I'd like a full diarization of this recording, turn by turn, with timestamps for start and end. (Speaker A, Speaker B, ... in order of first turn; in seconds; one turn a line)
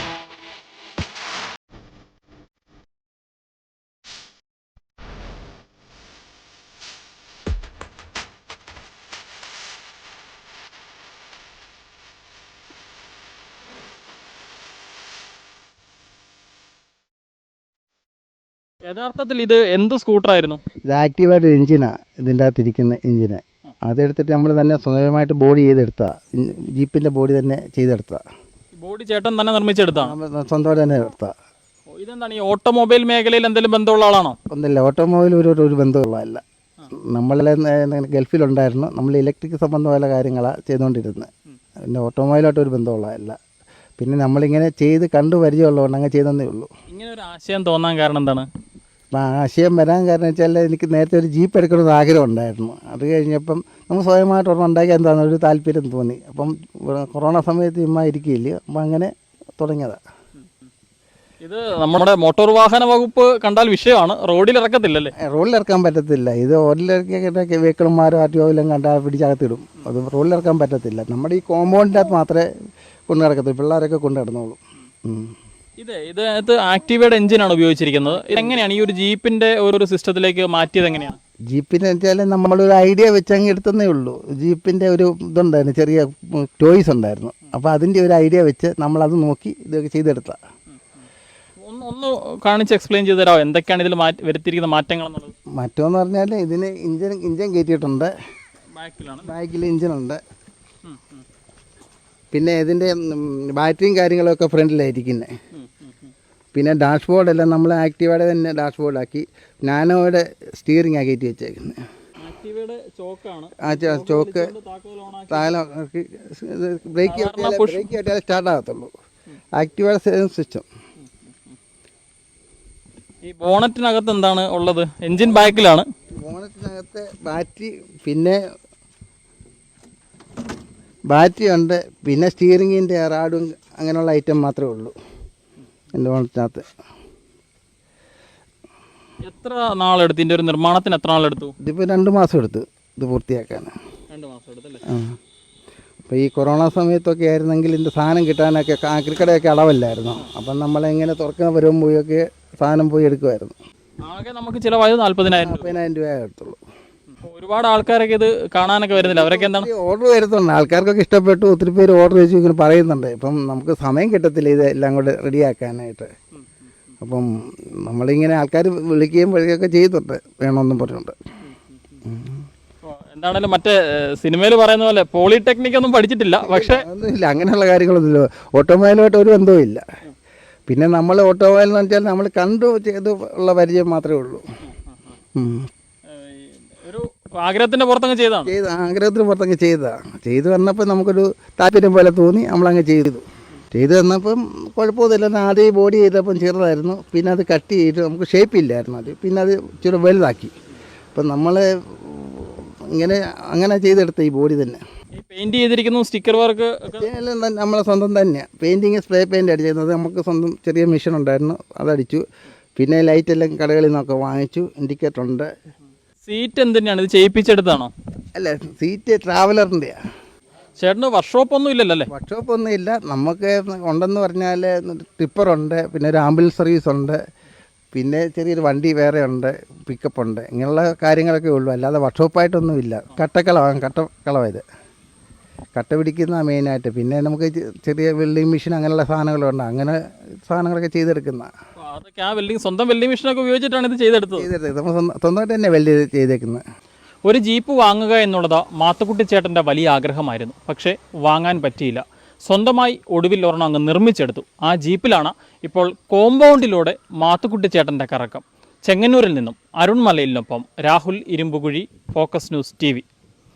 Speaker A: 18.9-20.6
Speaker B: 20.8-28.2
Speaker A: 28.8-30.1
Speaker B: 30.0-31.3
Speaker A: 31.9-34.4
Speaker B: 34.5-41.3
Speaker B: 41.8-43.4
Speaker B: 44.0-46.7
Speaker A: 46.9-48.5
Speaker B: 49.1-60.0
Speaker A: 61.4-65.1
Speaker B: 65.2-72.4
Speaker B: 73.1-75.3
Speaker A: 75.8-81.2
Speaker B: 78.1-78.6
Speaker B: 81.5-90.4
Speaker A: 91.6-95.3
Speaker B: 95.5-98.1
Speaker A: 98.8-99.3
Speaker B: 99.2-100.2
Speaker A: 100.8-101.2
Speaker B: 102.3-105.3
Speaker A: 105.5-106.1
Speaker B: 106.5-111.8
Speaker A: 112.2-115.5
Speaker B: 113.6-114.5
Speaker B: 115.3-118.9
Speaker A: 117.1-117.9
Speaker B: 119.5-120.7
Speaker A: 121.1-121.5
Speaker A: 123.2-125.8
Speaker B: 126.2-128.4
Speaker B: 131.1-134.9
Speaker B: 135.9-136.7
Speaker A: 139.2-141.5
Speaker B: 141.6-143.8
Speaker A: 144.1-144.8
Speaker B: 144.8-145.2
Speaker B: 146.1-153.5
Speaker A: 154.0-155.8
Speaker B: 155.4-156.6
Speaker A: 157.2-159.7
Speaker B: 158.9-166.1
Speaker B: 167.0-171.2
Speaker A: 171.4-172.0
Speaker B: 172.0-172.4
Speaker A: 172.8-176.8
Speaker B: 176.4-179.8
Speaker B: 180.7-184.4
Speaker A: 184.7-185.2
Speaker B: 185.3-185.7
Speaker A: 186.1-188.5
Speaker B: 188.4-200.5
Speaker B: 201.1-204.8
Speaker A: 205.2-207.1
Speaker B: 206.9-212.2
Speaker B: 212.8-215.5
Speaker A: 216.2-217.9
Speaker B: 218.3-220.0
Speaker A: 220.8-222.1
Speaker B: 222.1-227.2
Speaker B: 227.9-234.6
Speaker B: 235.8-241.5
Speaker A: 241.8-244.5
Speaker B: 244.4-246.6
Speaker A: 247.2-263.1